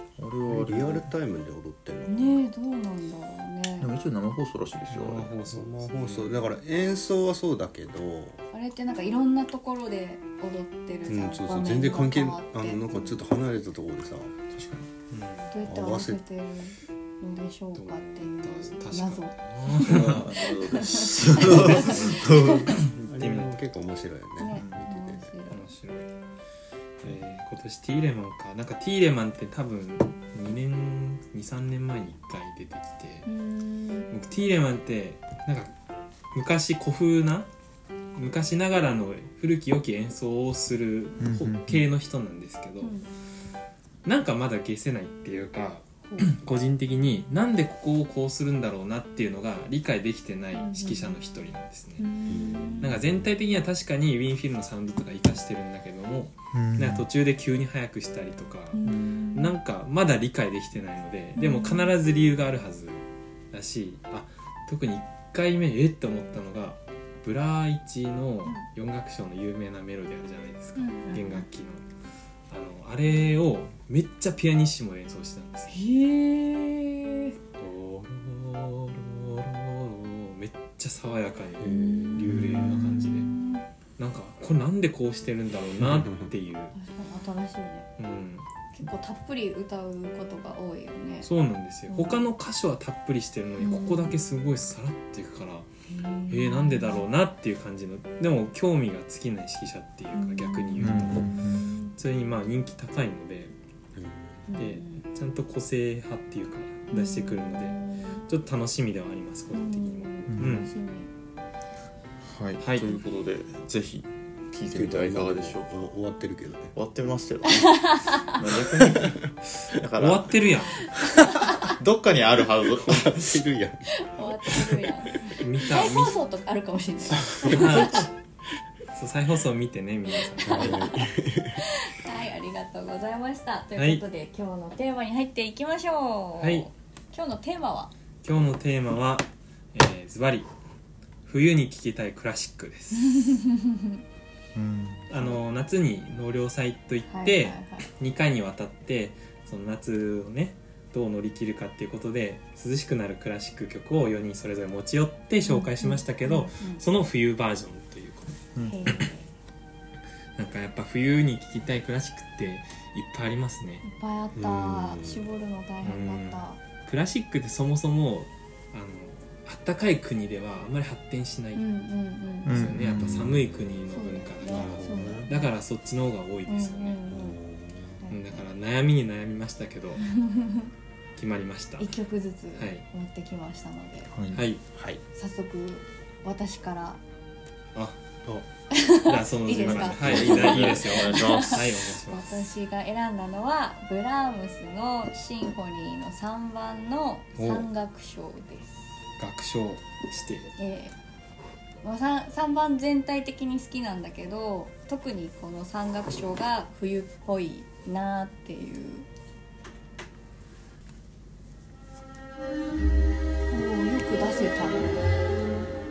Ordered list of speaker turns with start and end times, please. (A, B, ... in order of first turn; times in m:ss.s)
0:00.2-0:01.1 A
0:00.5-0:02.4 B
0:02.1-0:03.9 C
0:03.8-0:05.3 A
0:04.9-0:06.5 D
0:05.5-0:08.5 B
0:08.5-0:13.2 C
0:11.1-0:14.3 B
0:14.6-0:15.5 D
0:15.5-0:22.7 C
0:15.6-0:16.2 B
0:17.8-0:20.2 D
0:19.8-0:22.9 A
0:21.4-0:22.3 D
0:22.7-0:25.3 B
0:23.1-0:23.5 D
0:24.4-0:25.7 C
0:24.6-0:24.8 A
0:25.5-0:26.1 D
0:27.0-0:33.3 D
0:33.2-0:34.1 C
0:34.1-0:35.7 D
0:36.3-0:37.5 D
0:38.2-0:42.9 D
0:41.2-0:41.8 A
0:42.8-0:43.1 C
0:44.0-0:52.1 D
0:46.0-0:46.4 C
0:50.5-0:51.2 C
0:52.0-0:53.0 C
0:52.3-0:53.0 B
0:52.8-0:58.8 D
0:56.5-0:57.1 A
0:58.7-0:59.5 C
0:59.3-1:11.8 D
1:01.4-1:01.9 C
1:10.8-1:11.4 C
1:12.5-1:15.8 D
1:15.7-1:17.4 C
1:17.6-1:18.1 B
1:17.6-1:23.3 D
1:21.6-1:22.7 B
1:21.6-1:23.6 C
1:24.0-1:26.7 D
1:25.8-1:26.3 B
1:26.8-1:27.9 C
1:28.0-1:28.5 D
1:28.7-1:31.3 C
1:31.2-1:35.7 D
1:31.9-1:32.2 C
1:33.6-1:34.1 C
1:35.9-1:37.1 C
1:36.3-1:41.4 D
1:40.1-1:42.0 C
1:40.8-1:41.7 A
1:42.0-1:43.6 D
1:44.0-1:44.5 B
1:44.5-1:45.0 C
1:44.6-1:50.7 D
1:46.9-1:48.2 C
1:49.5-1:51.1 C
1:50.3-1:50.7 A
1:52.2-1:55.7 A
1:52.6-1:53.0 D
1:54.7-1:56.8 B
1:56.8-2:00.4 A
1:57.4-1:58.4 C
1:58.8-1:59.2 B
1:59.9-2:00.9 D
2:01.6-2:03.4 A
2:02.7-2:05.4 B
2:04.0-2:08.0 C
2:05.3-2:06.2 D
2:07.4-2:08.1 B
2:07.5-2:08.1 D
2:08.9-2:10.8 D
2:10.1-2:10.9 C
2:10.4-2:11.6 B
2:11.6-2:17.9 C
2:13.8-2:14.0 D
2:16.4-2:16.7 D
2:18.2-2:20.5 D
2:21.2-2:23.1 D
2:23.0-2:24.0 C
2:24.6-2:25.0 A
2:25.1-2:39.1 D
2:25.1-2:25.4 C
2:27.1-2:27.9 C
2:35.5-2:36.8 C
2:38.6-2:39.1 A
2:38.7-2:39.3 C
2:40.4-2:43.8 D
2:43.8-2:46.6 C
2:44.3-2:45.3 B
2:45.8-2:51.6 D
2:51.6-2:52.6 C
2:52.4-2:57.0 D
2:52.5-2:53.4 A
2:53.0-2:53.3 B
2:53.9-2:55.5 C
2:54.5-2:55.3 B
2:56.5-2:57.4 C
2:57.1-2:58.0 B
2:58.0-2:58.5 C
2:58.1-3:00.0 D
3:00.0-3:00.7 C
3:01.2-3:01.9 D
3:01.8-3:04.1 C
3:02.6-3:02.8 D
3:04.1-3:04.4 A
3:04.3-3:04.6 D
3:04.8-3:05.0 B
3:05.1-3:07.0 C
3:08.7-3:18.8 C
3:09.1-3:12.5 D
3:09.5-3:11.7 A
3:17.4-3:17.7 D
3:19.2-3:20.5 D
3:20.6-3:21.0 C
3:21.8-3:29.1 C
3:33.5-3:35.2 C